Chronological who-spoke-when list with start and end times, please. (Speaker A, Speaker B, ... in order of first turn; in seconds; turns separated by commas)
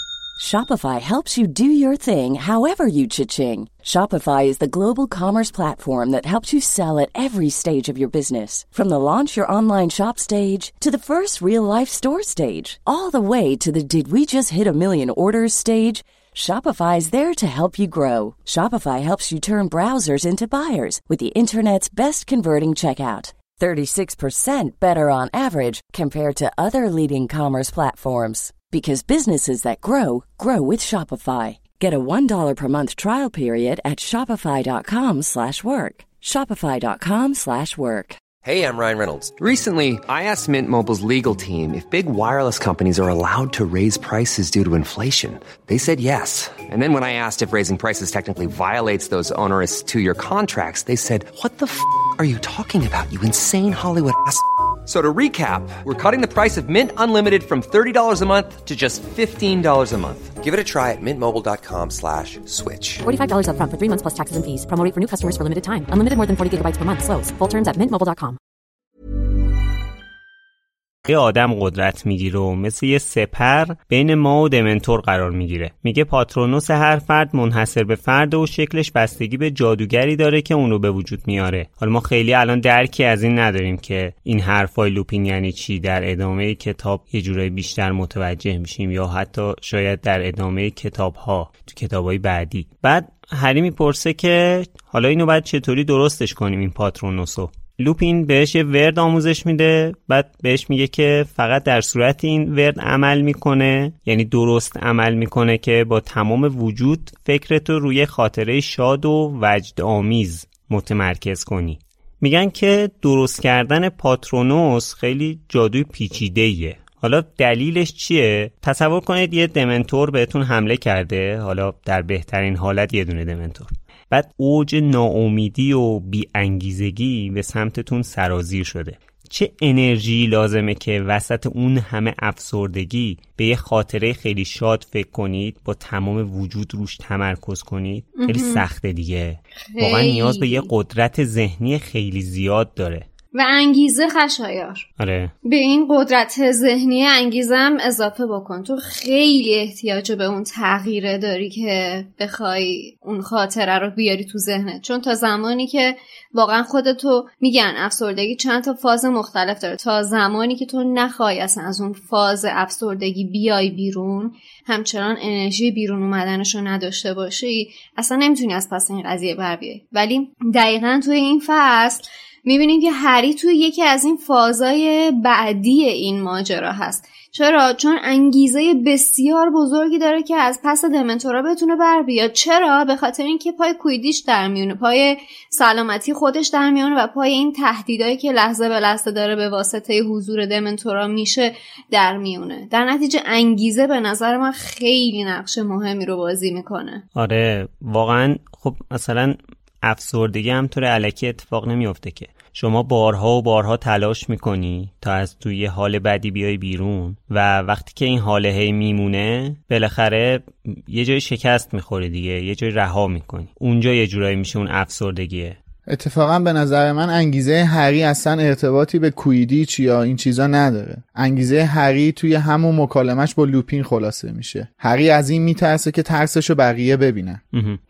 Speaker A: 0.4-38.2, Speaker B: 38.5-63.0, Speaker C: 63.0-68.4, Speaker D: 71.0-143.1, Speaker E: 138.2-138.6, Speaker E: 139.5-140.7, Speaker E: 143.3-144.8, Speaker D: 145.0-145.3, Speaker E: 145.4-197.0, Speaker D: 197.2-215.6, Speaker F: 215.9-227.4, Speaker D: 227.5-227.8